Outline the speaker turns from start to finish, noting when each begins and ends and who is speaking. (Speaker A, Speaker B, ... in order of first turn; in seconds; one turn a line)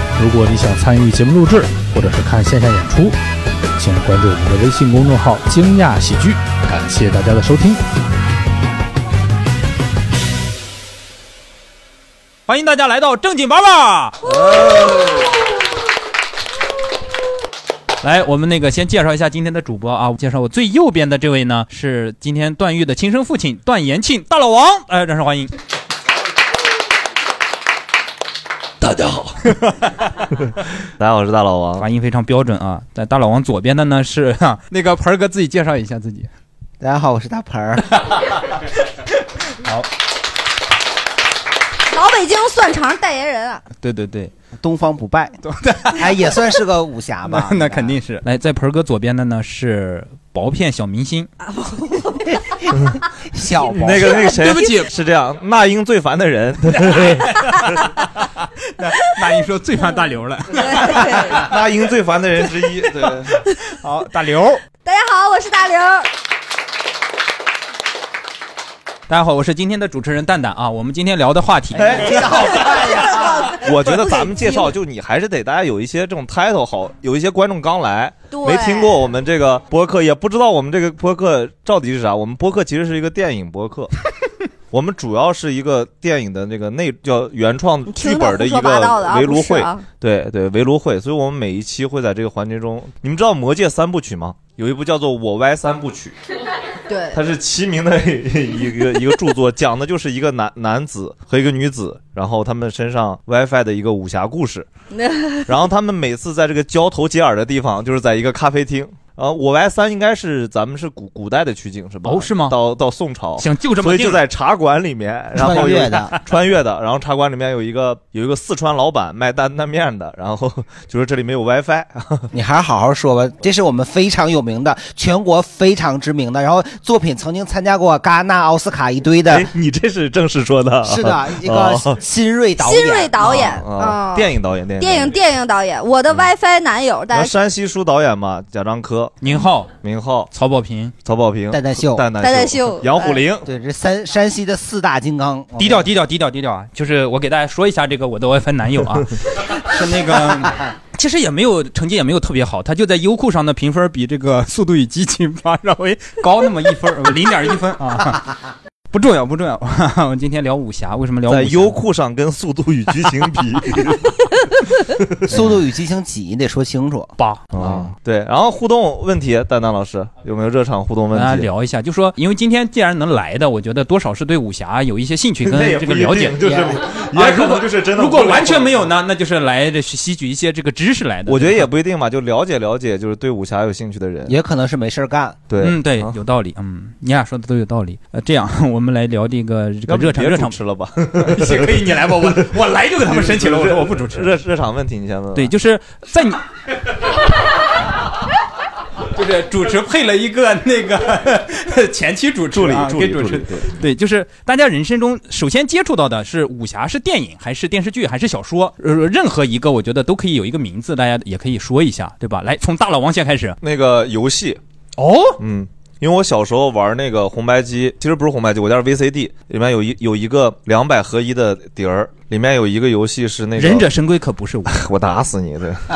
Speaker A: 0.1-3.2
Speaker A: 3.8-7.8
Speaker B: 12.5-14.2
Speaker C: 14.3-15.3
Speaker B: 18.0-25.5
Speaker C: 28.8-29.6
Speaker C: 31.0-31.8
Speaker B: 31.8-36.3
Speaker D: 36.8-37.9
Speaker E: 41.9-43.6
Speaker B: 43.8-44.3
Speaker D: 44.6-45.4
Speaker B: 45.5-46.2
Speaker D: 45.9-48.0
Speaker B: 47.2-51.3
Speaker E: 51.4-52.2
Speaker D: 52.3-52.7
Speaker D: 53.3-54.3
Speaker C: 53.6-57.2
Speaker B: 54.3-54.9
Speaker B: 56.8-57.7
Speaker B: 58.8-61.2
Speaker E: 60.6-61.4
Speaker C: 61.3-63.4
Speaker B: 63.7-64.6
Speaker E: 64.8-66.1
Speaker B: 69.1-72.2
Speaker D: 71.7-73.4
Speaker C: 71.7-83.9
Speaker E: 73.1-74.7
Speaker E: 78.3-79.0
Speaker C: 84.7-96.2
Speaker E: 87.9-89.8
Speaker E: 96.9-97.2
Speaker C: 97.1-104.7
Speaker E: 104.9-105.5
Speaker C: 105.5-122.3
Speaker B: 112.0-112.6
Speaker B: 113.4-114.2
Speaker D: 115.3-116.1
Speaker D: 122.3-129.5
Speaker C: 129.3-132.0
Speaker D: 130.8-133.5
Speaker E: 132.6-137.3
Speaker C: 133.2-135.2
Speaker C: 137.1-139.2
Speaker B: 139.2-139.7
Speaker C: 139.8-140.3
Speaker B: 140.3-140.9
Speaker C: 141.0-143.5
Speaker D: 141.5-142.1
Speaker E: 142.2-143.3
Speaker D: 143.4-145.9
Speaker B: 145.6-158.2
Speaker B: 158.9-161.8
Speaker C: 161.3-164.1
Speaker C: 164.9-165.6
Speaker D: 165.3-167.9
Speaker B: 167.2-167.4
Speaker C: 167.5-171.5
Speaker B: 171.1-181.7
Speaker C: 175.4-178.9
Speaker C: 181.3-184.3
Speaker D: 184.2-185.4
Speaker C: 185.5-186.1
Speaker B: 185.6-190.6
Speaker C: 189.9-195.5
Speaker B: 191.2-194.4
Speaker B: 195.3-196.4
Speaker B: 199.1-213.6
Speaker C: 202.5-203.7
Speaker C: 213.6-214.6
Speaker B: 215.0-215.4
Speaker C: 215.4-223.9
Speaker B: 223.6-224.8
Speaker C: 224.7-225.8